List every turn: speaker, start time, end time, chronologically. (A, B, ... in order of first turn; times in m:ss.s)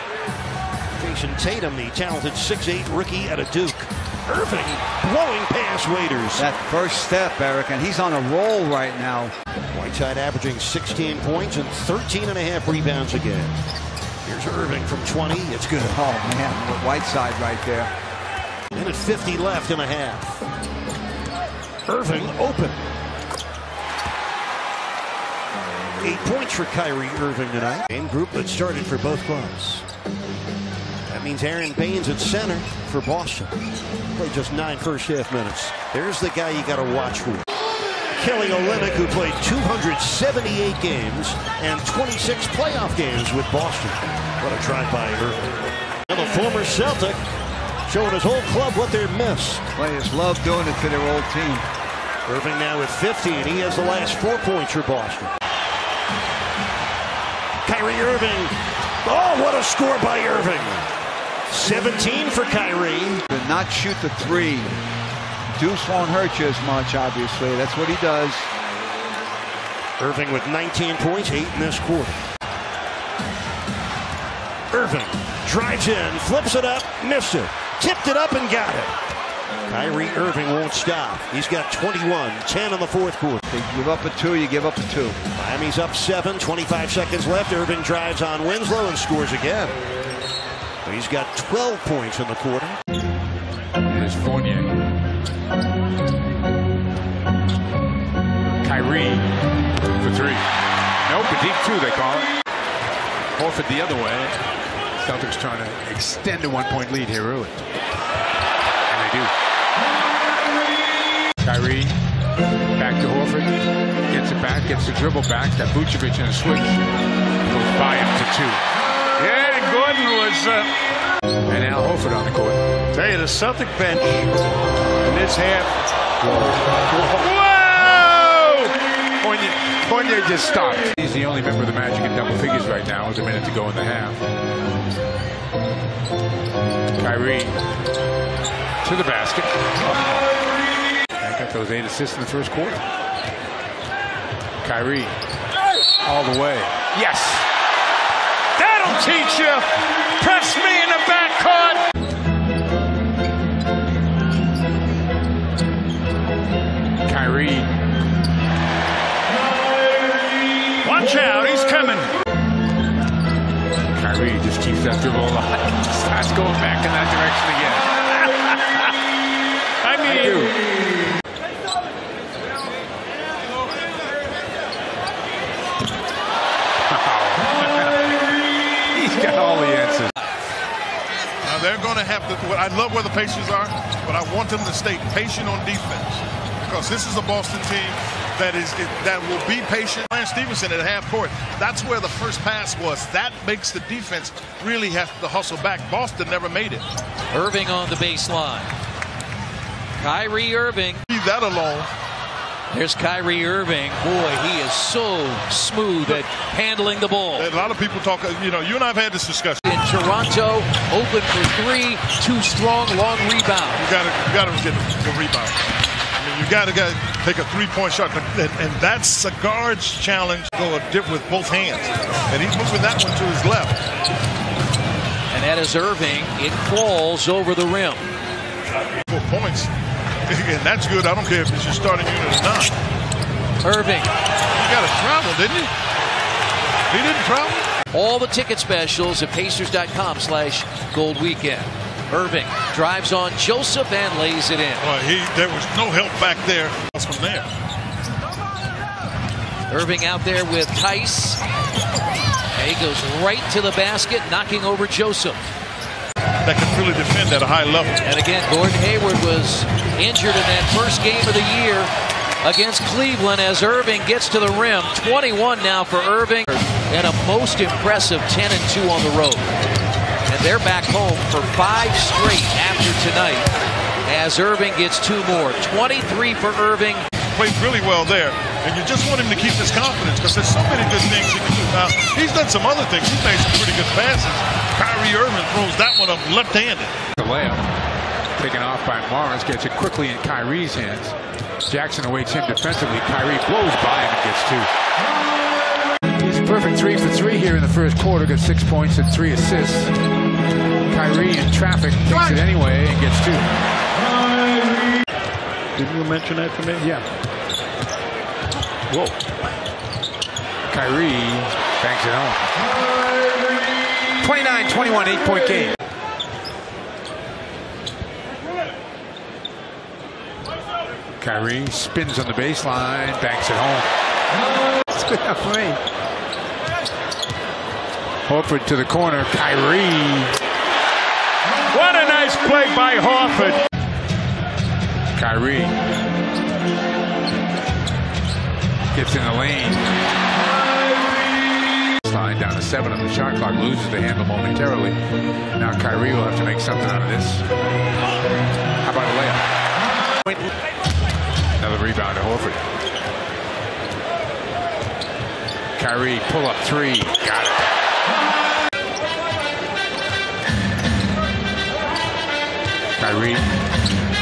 0:01.0-0:06.5 A
0:06.4-0:09.3 B
0:09.7-0:13.6 A
0:14.2-0:16.1 A
0:15.9-0:17.9 B
0:18.7-0:20.4 A
0:21.9-0:22.8 A
0:26.0-0:29.8 A
0:31.1-0:33.5 A
0:34.1-0:37.4 A
0:38.2-0:45.4 A
0:46.1-0:47.2 A
0:47.9-0:49.6 A
0:49.8-0:51.6 B
0:52.3-0:55.3 A
0:57.6-0:58.5 A
0:59.0-1:00.8 A
1:01.5-1:03.2 A
1:03.3-1:04.7 B
1:05.6-1:08.5 B
1:10.0-1:12.2 A
1:14.7-1:18.9 A
1:19.7-1:23.4 A
1:23.5-1:25.2 B
1:25.4-1:29.8 A
1:30.8-1:32.8 A
1:33.9-1:34.7 C
1:38.6-1:39.3 C
1:40.0-1:40.4 C
1:41.0-1:42.3 C
1:43.4-1:44.4 C
1:45.0-1:47.6 C
1:48.9-1:49.3 C
1:51.4-1:51.9 C
1:52.7-1:53.6 C
1:54.1-1:56.8 C
1:57.5-1:58.6 C
1:59.2-2:00.7 D
2:01.5-2:02.6 C
2:07.2-2:08.7 D
2:09.4-2:14.2 C
2:17.0-2:17.5 C
2:18.8-2:20.2 C
2:21.2-2:22.8 C
2:24.6-2:25.2 C
2:26.0-2:27.4 C
2:28.6-2:31.8 D
2:37.0-2:37.7 C
2:40.8-2:42.1 D
2:43.9-2:47.9 C
2:49.8-2:50.4 D
2:50.0-2:50.5 C
2:56.9-2:58.0 C
2:58.9-3:00.1 C
3:01.4-3:16.8 E
3:17.3-3:18.7 F
3:20.0-3:21.0 F
3:21.1-3:21.9 E
3:22.7-3:27.5 F
3:27.3-3:29.6 E
3:29.6-3:33.9 F
3:33.8-3:35.5 E
3:36.2-3:43.8 E
3:45.3-3:48.1 F
3:49.1-3:49.7 E
3:50.3-3:52.7 E
3:53.6-3:54.0 F
3:54.6-3:55.7 E
3:56.9-3:57.6 E
3:57.9-4:04.9 F
4:04.8-4:07.4 E
4:09.7-4:11.4 F
4:12.6-4:15.4 F
4:16.4-4:18.0 E
4:18.0-4:21.9 F
4:22.4-4:29.5 F
4:30.3-4:33.5 F
4:34.0-4:37.0 F
4:37.3-4:46.9 E
4:47.2-4:47.6 C
4:48.4-4:51.1 C
4:51.7-4:54.7 C
4:56.2-4:59.9 C
5:00.9-5:03.5 C
5:10.7-5:12.5 C
5:14.2-5:15.7 C
5:21.2-5:23.9 C
5:24.9-5:25.8 C
5:28.3-5:30.3 C
5:31.7-5:33.6 D
5:35.1-5:35.7 C
5:38.9-5:39.8 C
5:42.0-5:45.0 C
5:45.6-5:47.4 C
5:48.8-5:49.4 C
5:51.6-5:52.6 C
5:55.8-5:57.6 C
6:03.0-6:03.4 C